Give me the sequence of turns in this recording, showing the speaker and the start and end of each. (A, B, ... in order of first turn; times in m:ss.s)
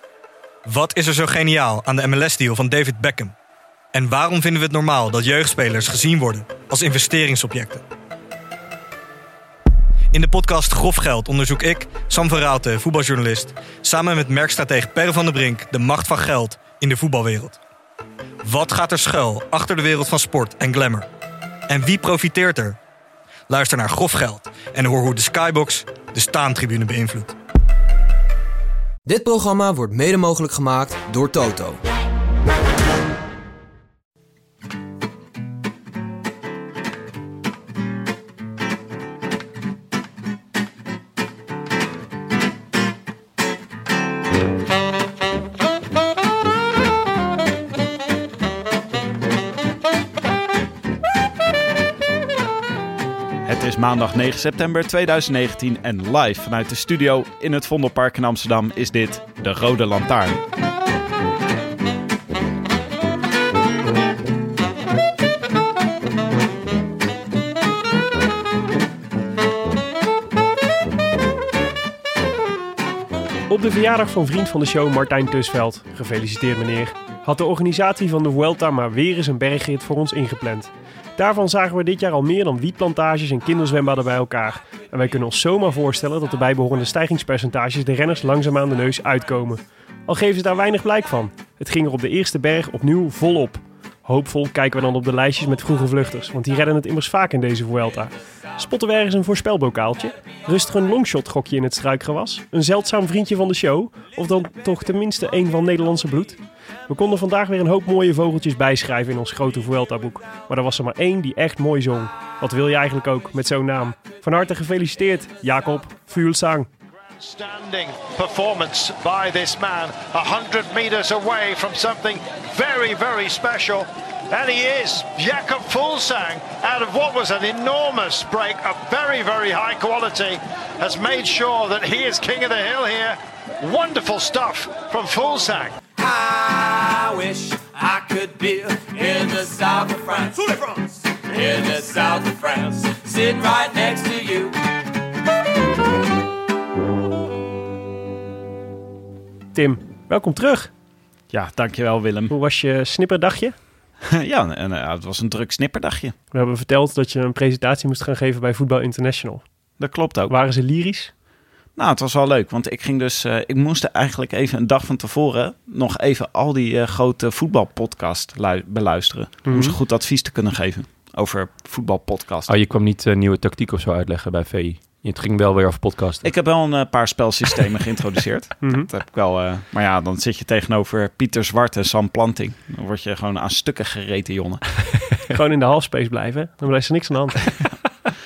0:00.6-0:03.3 A
0:03.9-0:07.8 A
0:10.1-0:17.6 A
0:18.4-0:21.0 A
0:21.7-0:22.8 A
0:23.5-0:27.4 A
0:29.0-0:31.8 B
0:53.4-1:00.4 C
1:13.5-1:56.7 D
1:57.1-2:15.8 E
2:16.0-2:24.6 F
2:29.5-2:30.7 D
2:31.3-2:32.3 C
2:32.3-2:33.5 D
2:34.0-2:36.1 C
2:36.3-2:39.4 D
2:39.8-2:40.3 C
2:40.3-2:41.1 D
2:41.8-2:52.5 C
2:49.4-2:49.8 D
2:52.5-2:56.3 G
2:56.2-3:04.6 C
2:58.6-2:58.9 D
3:05.3-3:07.5 D